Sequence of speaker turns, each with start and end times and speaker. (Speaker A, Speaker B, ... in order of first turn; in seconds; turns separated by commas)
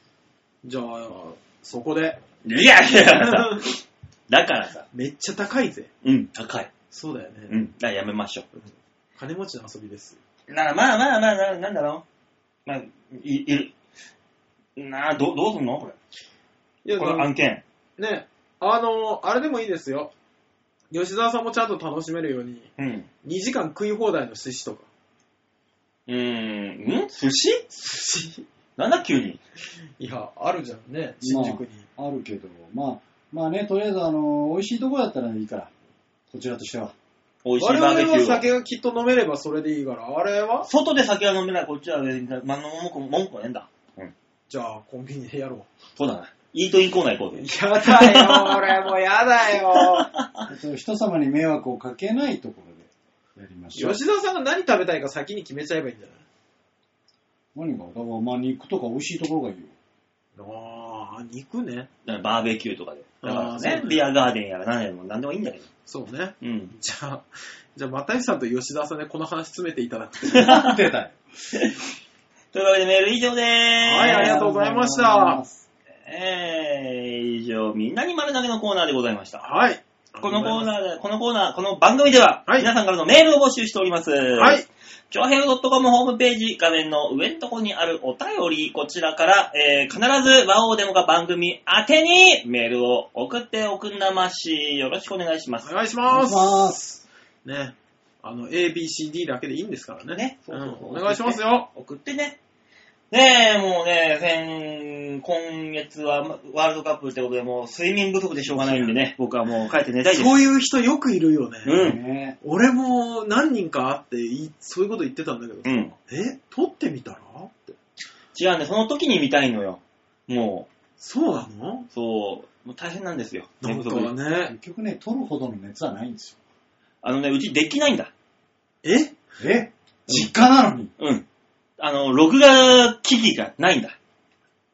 Speaker A: 0.6-2.2, Speaker B: 2.4-3.7, Speaker A: 3.1-3.8, Speaker B: 4.3-4.9, Speaker A: 4.9-5.9, Speaker B: 6.0-6.7, Speaker A: 6.9-7.6, Speaker B: 7.5-8.5, Speaker A: 8.6-10.2, Speaker B: 10.5-12.0, Speaker B: 12.7-13.7, Speaker B: 14.8-16.0, Speaker A: 16.9-17.3, Speaker B: 17.0-17.6, Speaker A: 18.0-20.1, Speaker A: 20.9-22.7, Speaker B: 22.8-23.1, Speaker A: 23.2-24.9, Speaker B: 26.1-27.6, Speaker A: 27.7-28.5, Speaker B: 28.8-29.4, Speaker A: 30.0-31.9, Speaker C: 31.2-35.7, Speaker C: 36.3-36.9, Speaker B: 37.4-38.5, Speaker A: 37.6-40.7, Speaker B: 40.7-44.1, Speaker A: 44.5-45.7, Speaker B: 46.0-48.7, Speaker A: 47.4-50.1, Speaker C: 50.5-54.0, Speaker A: 53.7-56.2, Speaker C: 57.5-59.7, Speaker A: 60.4-61.9, Speaker B: 62.0-65.7, Speaker A: 63.2-64.1, Speaker A: 65.9-70.6, Speaker B: 66.4-66.7, Speaker B: 70.3-70.7, Speaker C: 70.4-71.2, Speaker B: 72.5-74.4, Speaker A: 73.8-75.4, Speaker C: 74.1-75.7, Speaker B: 76.0-79.5, Speaker A: 79.4-80.7, Speaker B: 80.2-95.7, Speaker A: 84.4-84.7, Speaker A: 95.6-96.8, Speaker C: 96.1-97.0, Speaker A: 97.5-101.7, Speaker B: 100.1-102.4, Speaker B: 103.1-110.4, Speaker A: 108.5-108.9, Speaker A: 110.1-111.8, Speaker B: 111.7-112.0, Speaker C: 111.7-112.4, Speaker A: 112.4-117.8, Speaker B: 115.7-115.9, Speaker B: 118.3-120.7, Speaker A: 121.0-121.9, Speaker B: 121.9-124.1, Speaker A: 123.6-124.5, Speaker C: 124.5-126.4, Speaker B: 127.0-128.1, Speaker A: 128.8-129.2, Speaker C: 129.4-130.9, Speaker B: 131.0-131.2, Speaker B: 131.8-133.9